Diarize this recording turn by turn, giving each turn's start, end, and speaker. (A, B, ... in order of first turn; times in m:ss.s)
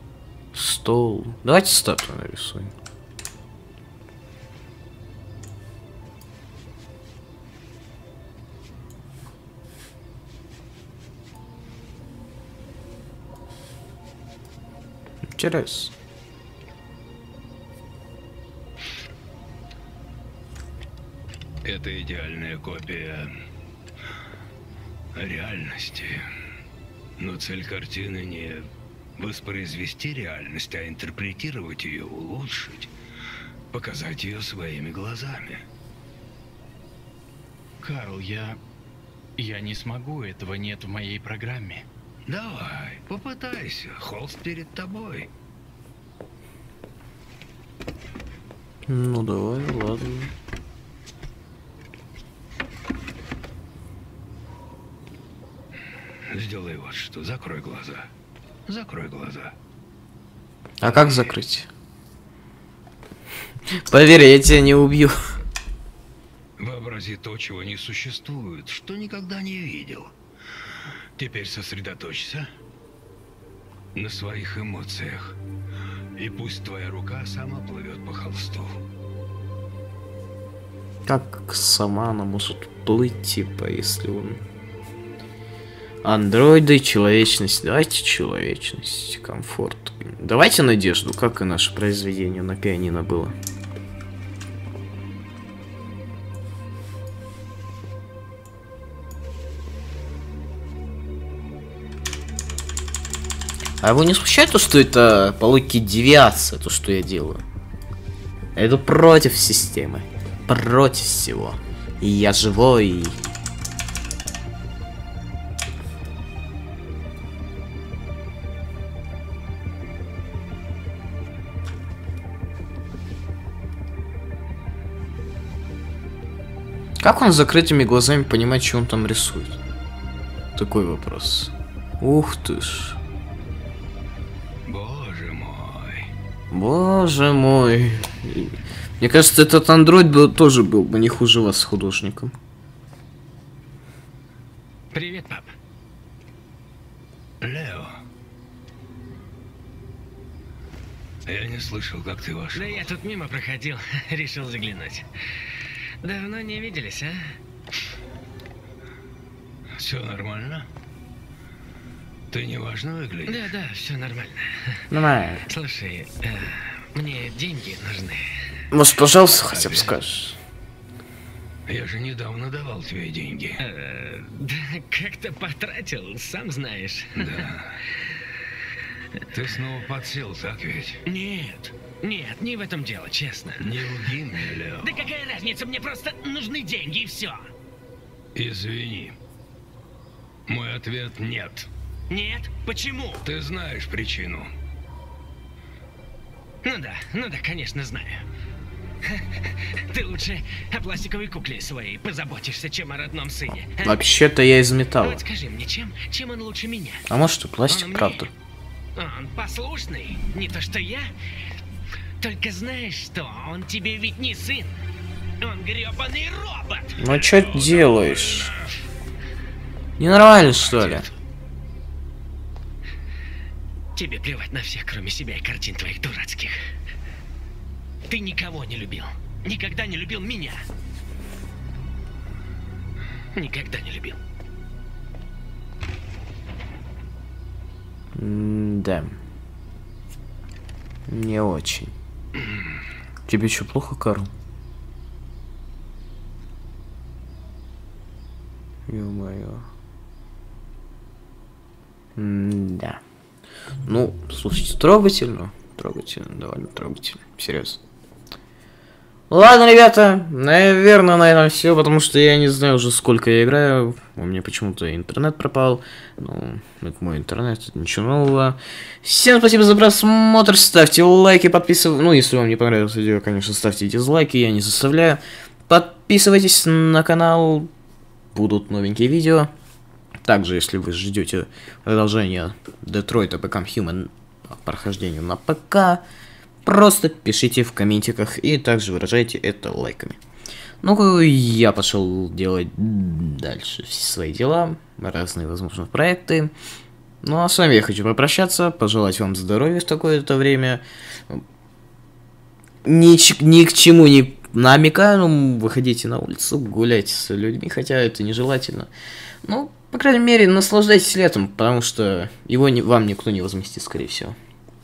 0:00.5-0:02.7 A
0:15.3-0:15.9 A
0:21.6-0:23.3 B
0:25.2-0:26.3 B
0:27.2-0:32.9 B
0:33.7-0:35.6 B
0:37.8-0:38.6 C
0:39.4-0:41.8 C
0:42.3-0:45.3 B
0:48.9-0:50.3 A
0:56.3-0:58.1 B
0:58.7-0:59.5 B
1:00.8-1:01.7 A
1:03.9-1:05.2 A
1:06.6-1:10.1 B
1:11.2-1:12.5 B
1:14.0-1:15.4 B
1:16.2-1:18.8 B
1:21.1-1:24.4 A
1:26.0-1:33.4 A
1:43.8-1:47.4 A
1:48.6-1:53.2 A
2:07.0-2:09.6 A
2:10.6-2:13.0 A
2:14.7-2:16.1 B
2:16.5-2:22.3 A
2:24.9-2:25.5 D
2:27.4-2:28.0 B
2:31.3-2:32.9 B
2:32.5-2:35.1 D
2:36.0-2:37.4 D
2:39.7-2:40.7 B
2:42.3-2:43.4 B
2:43.3-2:44.9 D
2:44.9-2:45.5 A
2:45.5-2:48.3 D
2:48.7-2:50.4 A
2:49.4-2:50.0 B
2:51.7-2:53.6 B
2:53.6-2:57.5 D
2:57.2-2:57.8 B
2:59.3-3:01.0 B
3:01.0-3:04.2 D
3:03.6-3:05.1 B
3:04.8-3:07.5 D
3:08.4-3:09.2 B
3:10.5-3:11.7 B
3:12.1-3:13.2 D
3:13.2-3:14.5 B
3:16.6-3:18.3 D
3:19.0-3:24.0 D
3:23.8-3:25.2 A
3:25.0-3:27.1 D
3:27.1-3:28.3 A
3:27.7-3:28.3 D
3:29.0-3:31.1 D
3:32.2-3:34.8 D
3:35.4-3:37.4 D
3:37.0-3:38.5 A
3:37.3-3:38.5 B
3:40.0-3:41.1 A
3:40.7-3:41.1 D
3:44.0-3:46.6 D
3:48.1-3:50.6 D
3:53.3-3:54.2 D
3:58.2-3:59.2 A
4:01.1-4:01.9 A
4:03.3-4:04.3 A
4:08.9-4:09.7 A
4:12.2-4:13.0 A
4:13.9-4:17.8 A
4:19.3-4:37.7 A
4:38.4-4:39.5 A
4:40.3-4:46.0 A
4:46.6-4:50.2 A
4:50.8-4:56.5 A
4:57.2-5:01.4 A
5:02.8-5:08.9 A
5:09.4-5:14.4 A